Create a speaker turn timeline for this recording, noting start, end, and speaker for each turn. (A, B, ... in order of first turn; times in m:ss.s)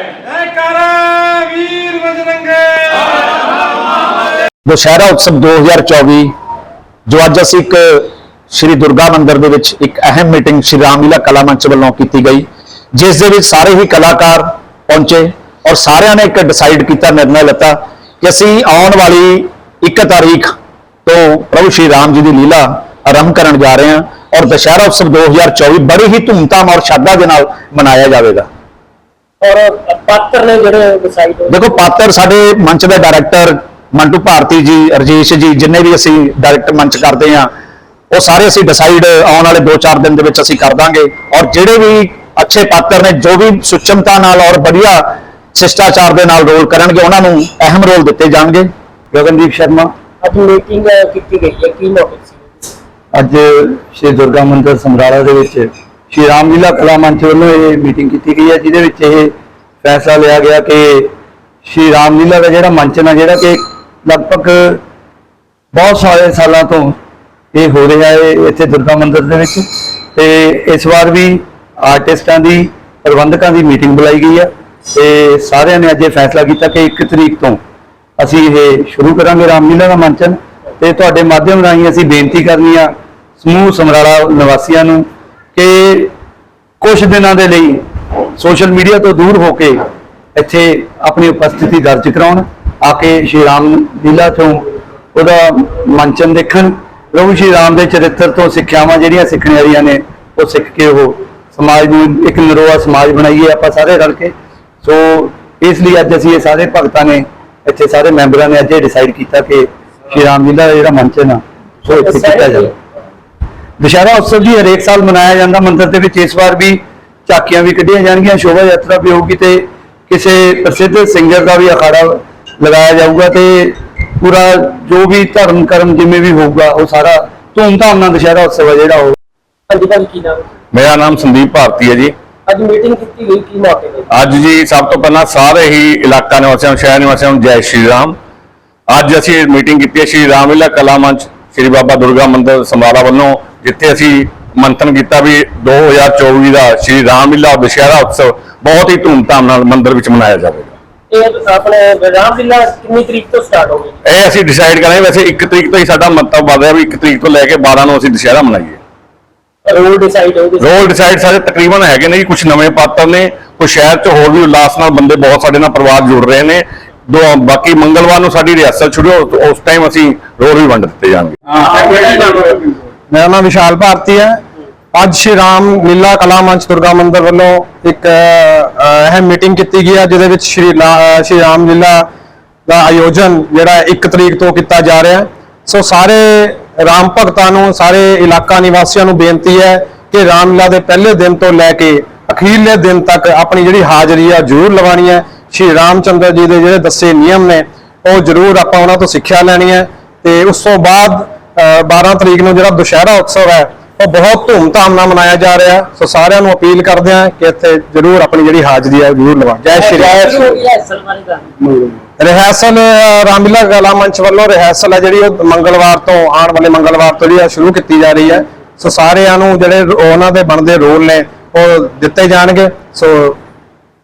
0:04.6-0:06.3 A
0:07.0-0:20.5 A
0:21.0-0:28.5 A
0:29.4-0:31.7 B
0:31.5-0:37.5 A
0:38.1-0:48.7 A
0:49.1-0:49.9 C
0:50.2-0:52.5 B
0:53.1-1:01.1 C
1:01.6-1:04.8 C
1:05.7-1:07.0 C
1:07.5-1:17.6 C
1:18.2-1:26.1 C
1:26.8-1:27.8 C
1:28.4-1:29.8 C
1:30.3-1:52.7 C
1:51.9-1:52.7 B
1:53.8-2:09.2 C
2:09.7-2:10.5 B
2:10.7-2:12.1 D
2:12.5-2:14.1 B
2:14.1-2:18.2 D
2:18.9-2:30.7 D
2:31.1-2:34.0 B
2:34.0-2:38.8 D
2:39.6-2:40.9 B
2:40.6-2:51.9 D
2:53.1-2:54.4 E
2:54.9-3:02.1 E
3:02.7-3:30.2 E
3:29.7-3:31.9 B
3:32.2-3:43.4 E